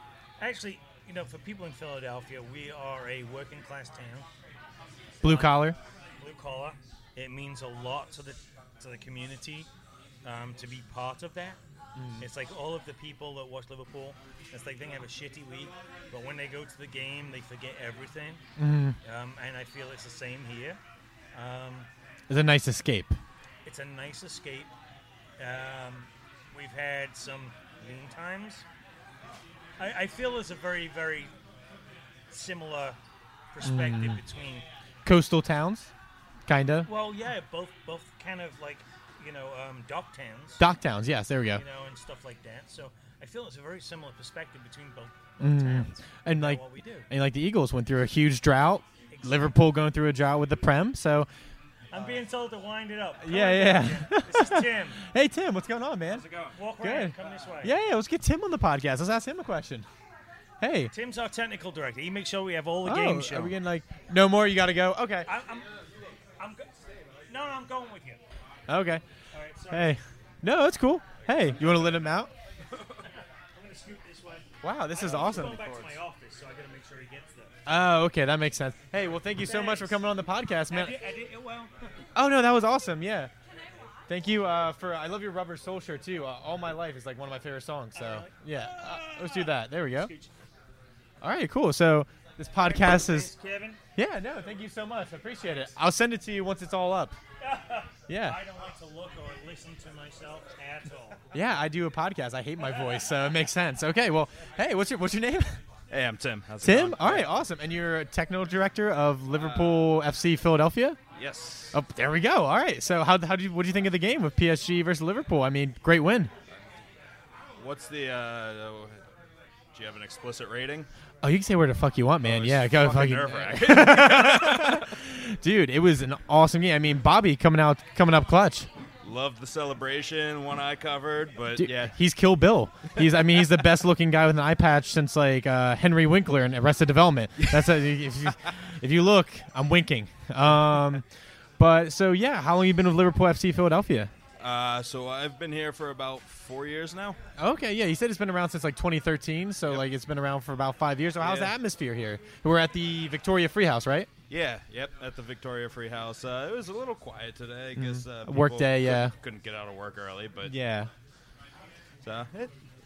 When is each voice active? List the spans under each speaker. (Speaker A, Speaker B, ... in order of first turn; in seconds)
Speaker A: 0.4-4.3, 5.2-5.6, 6.2-9.7, 10.2-11.6, 12.2-18.4, 19.0-20.8, 21.3-21.9, 23.6-24.7, 25.4-28.6, 29.8-31.3, 32.3-33.0, 33.5-34.6, 36.8-40.6, 41.5-47.1, 49.1-49.5, 51.9-55.0, 56.5-57.7, 60.9-63.5, 65.2-65.7, 66.4-66.7, 67.3-68.2, 69.3-70.0, 71.2-72.1, 72.8-77.6, 79.0-80.0, 80.7-81.9, 88.0-90.3, 92.6-93.8, 97.4-101.2, 102.7-103.0
Speaker B: 5.2-5.8, 11.9-12.2, 18.6-19.0, 22.3-23.2, 33.6-34.2, 35.0-35.9, 36.5-36.9, 40.6-41.6, 45.4-51.3, 53.2-56.2, 56.8-59.9, 60.6-60.9, 62.8-65.3, 68.7-69.0, 69.7-72.3, 74.6-76.0, 77.7-81.0, 82.1-83.3, 84.1-90.1, 91.2-93.3, 94.0-97.2, 98.1-98.4, 101.3-105.6, 106.6-111.0, 111.7-116.3, 121.2-128.7, 131.6-141.0, 141.6-144.1, 147.4-154.1, 157.8-159.1, 160.4-160.9
Speaker C: 56.1-56.5, 105.9-107.3, 109.3-109.9, 111.1-111.8, 117.6-119.0, 119.7-120.9, 122.2-124.9, 129.0-131.9, 132.9-133.6, 144.4-147.2, 151.2-151.5, 154.3-160.5, 162.0-162.5